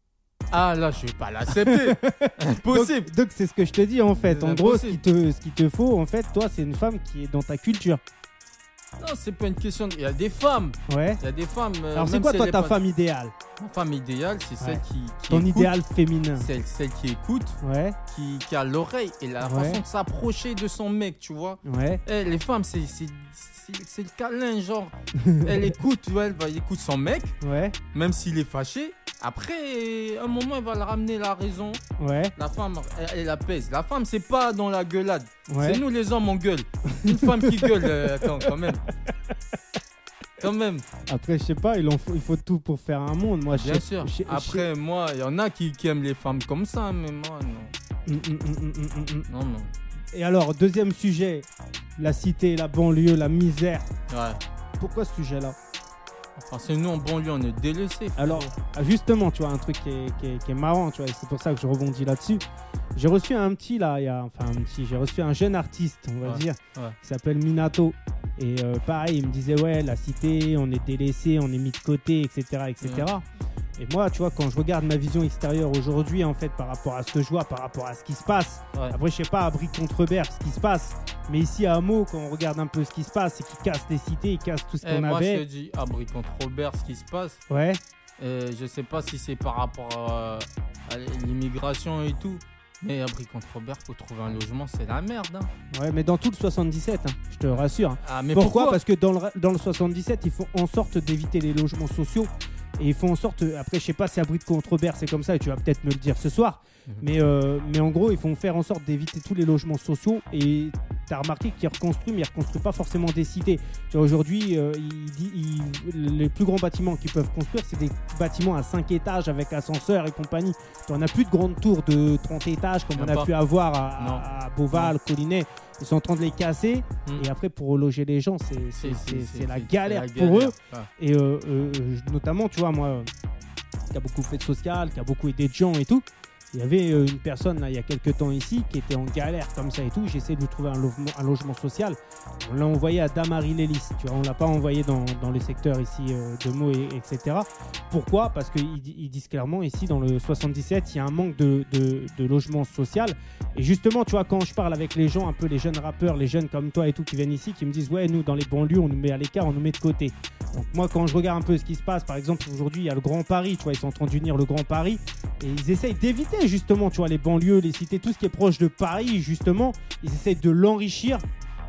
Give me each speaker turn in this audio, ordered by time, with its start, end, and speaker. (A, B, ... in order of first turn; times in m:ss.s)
0:00.5-0:03.1 A
0:01.5-0:08.0 B
0:04.1-0:05.0 A
0:09.0-0:12.8 A
0:10.9-0:11.2 B
0:11.9-0:13.4 B
0:13.6-0:15.8 A
0:14.6-0:16.5 B
0:16.4-0:27.4 A
0:17.6-0:18.0 B
0:19.4-0:19.8 B
0:21.6-0:22.0 B
0:25.2-0:25.7 B
0:27.4-0:27.8 B
0:27.9-0:31.8 A
0:32.0-0:32.3 B
0:32.4-0:38.8 A
0:35.5-0:35.8 B
0:36.9-0:38.5 B
0:40.4-0:40.9 A
0:41.1-0:44.7 B
0:43.5-0:47.7 A
0:48.1-0:49.3 B
0:49.3-0:49.7 A
0:50.1-0:53.9 B
0:54.1-0:54.4 A
0:54.8-0:55.6 B
0:56.4-0:58.6 A
0:58.2-1:02.4 B
1:03.0-1:13.3 B
1:06.2-1:07.0 A
1:12.8-1:13.1 A
1:13.8-1:25.5 B
1:24.8-1:27.4 A
1:27.5-1:27.8 B
1:28.2-1:35.5 A
1:35.7-2:13.1 B
1:37.5-1:38.8 A
2:03.0-2:03.3 A
2:04.0-2:04.9 A
2:08.7-2:10.9 A
2:13.9-2:51.2 B